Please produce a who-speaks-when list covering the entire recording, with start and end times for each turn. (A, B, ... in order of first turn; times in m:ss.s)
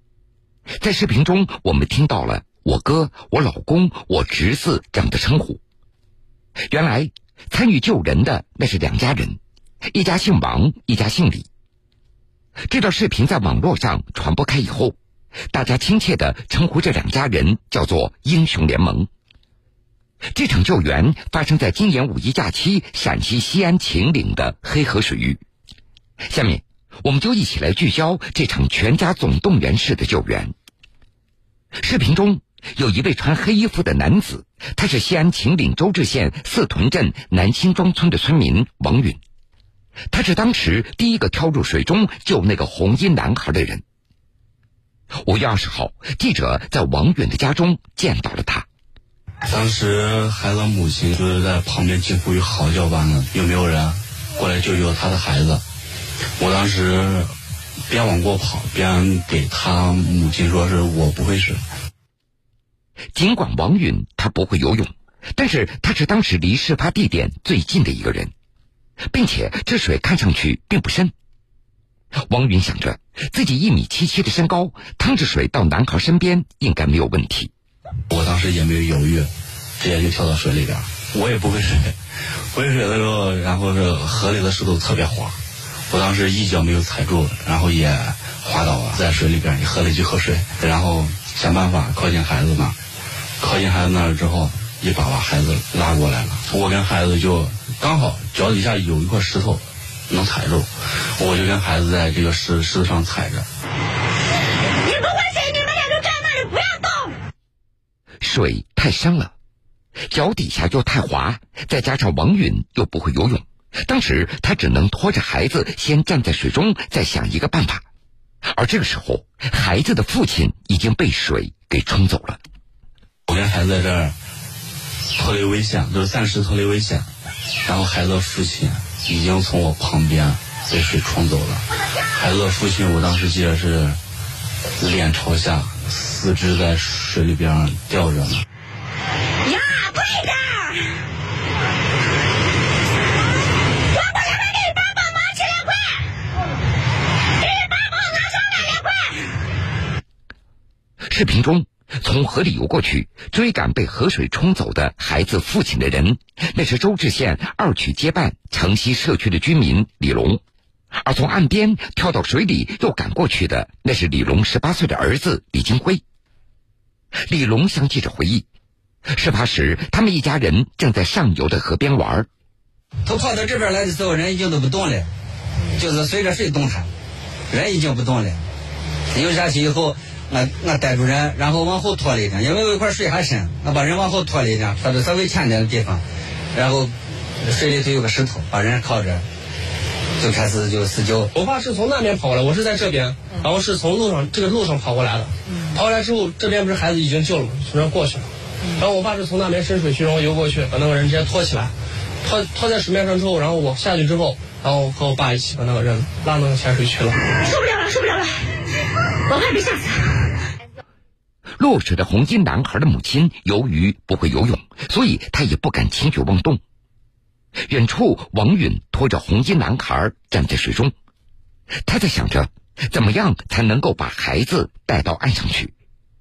0:00.8-0:05.6 A
0:06.7-0:09.4 A
0:09.9-0:11.5 A
0:12.7-0:15.0 A
0:15.5-0:19.1 A
0:20.3-0:25.4 A
0:26.3-0:30.5 A
0:31.8-0:39.2 A
0:40.1-0:43.8 A
0:45.2-0:48.7 A
0:49.5-0:55.6 B
0:56.4-0:57.3 B
0:57.9-1:01.6 B
1:03.2-1:08.3 A
1:09.1-1:11.1 A
1:12.3-1:17.5 A
1:18.1-1:32.8 B
1:33.4-1:43.5 B
1:44.8-1:47.1 C
1:48.2-1:49.3 A
1:50.1-1:57.8 A
1:58.5-2:02.4 A
2:03.3-2:04.2 B
2:05.2-2:07.1 B
2:07.6-2:11.6 B
2:12.1-2:14.0 B
2:14.8-2:18.4 B
2:19.4-2:21.0 C
2:23.9-2:26.1 C
2:27.4-2:29.3 C
2:31.1-2:40.4 A
2:41.0-2:46.0 A
2:47.3-2:48.5 A
2:49.1-2:52.3 A
2:53.0-2:55.1 D
2:55.8-2:56.9 D
2:57.5-2:58.5 D
2:59.1-3:09.3 D
3:10.2-3:11.3 D
3:11.3-3:27.2 E
3:27.4-3:28.5 C
3:29.3-3:30.3 C
3:31.6-3:36.6 A
3:37.7-3:40.9 A
3:41.8-3:45.7 A